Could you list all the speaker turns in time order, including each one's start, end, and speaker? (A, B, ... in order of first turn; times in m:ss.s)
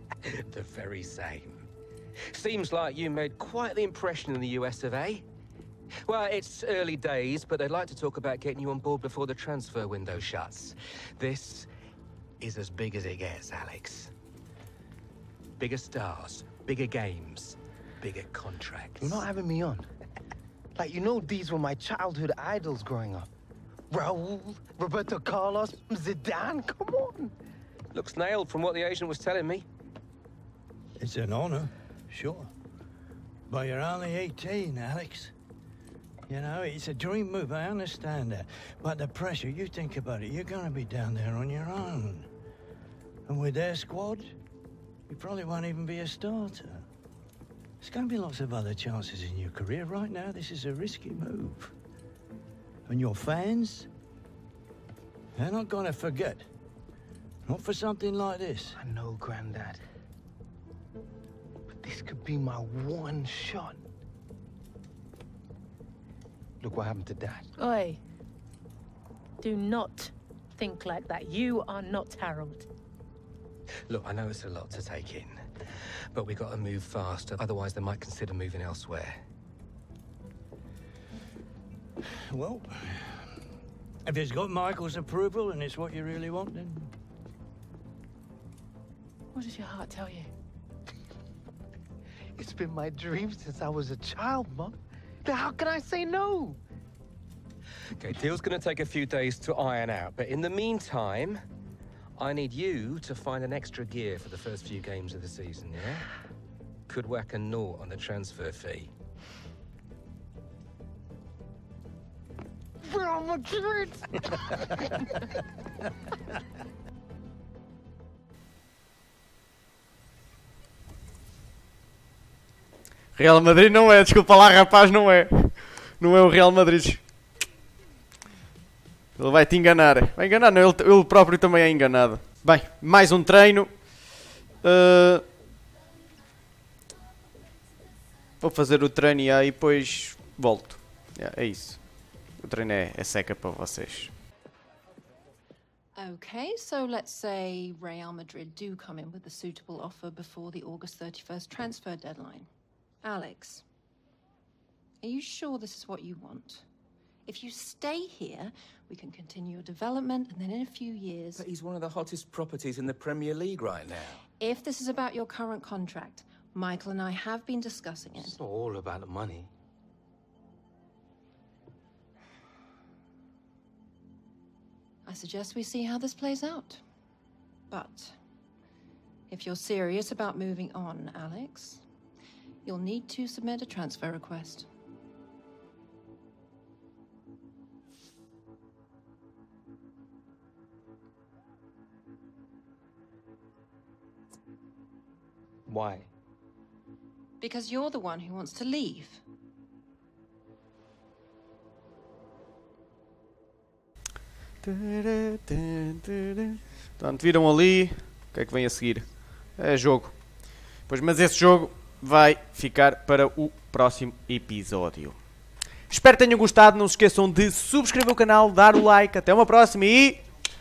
0:00.2-0:01.7 A
0:02.3-0:05.2 A
0:06.0-0:11.7 A
0:12.4-0:14.1 A
0:15.6-0:19.0 A
0:19.0-0:19.9 B
0:20.8-0:23.3 B
0:23.9-0:27.3 B
0:27.9-0:29.6 A
0:31.0-0:32.5 C
0:33.5-0:35.3 C
0:36.3-0:42.3 C
0:43.2-0:44.4 C
0:45.1-0:46.9 C
0:47.8-0:51.7 C
0:52.9-0:53.9 C
0:55.4-0:56.5 C
0:57.4-0:58.8 C
0:58.7-0:59.8 B
1:01.8-1:03.8 B
1:06.6-1:07.4 B
1:07.6-1:08.0 D
1:09.4-1:12.6 D
1:13.9-1:15.4 A
1:16.1-1:19.2 A
1:22.3-1:23.2 C
1:24.0-1:26.9 C
1:29.3-1:30.3 D
1:32.4-1:36.6 B
1:38.0-1:41.4 A
1:42.2-1:46.0 A
1:46.9-1:48.9 A
2:03.2-2:07.0 E
2:09.2-2:13.7 E
2:14.6-2:15.2 E
2:18.4-2:21.8 E
2:22.4-2:24.1 E
2:26.0-2:32.5 F
2:33.0-2:33.6 F
2:35.0-2:36.6 F
2:37.2-2:41.4 F
2:41.4-2:44.2 A
2:44.4-2:48.4 F
2:48.3-2:49.5 A
2:55.0-2:56.8 F
2:57.7-2:58.1 F
2:59.3-3:01.8 F
3:02.6-3:04.7 F
3:17.4-3:19.2 F
3:24.6-3:29.0 E
3:29.6-3:30.1 E
3:30.9-3:35.2 E
3:35.9-3:40.2 E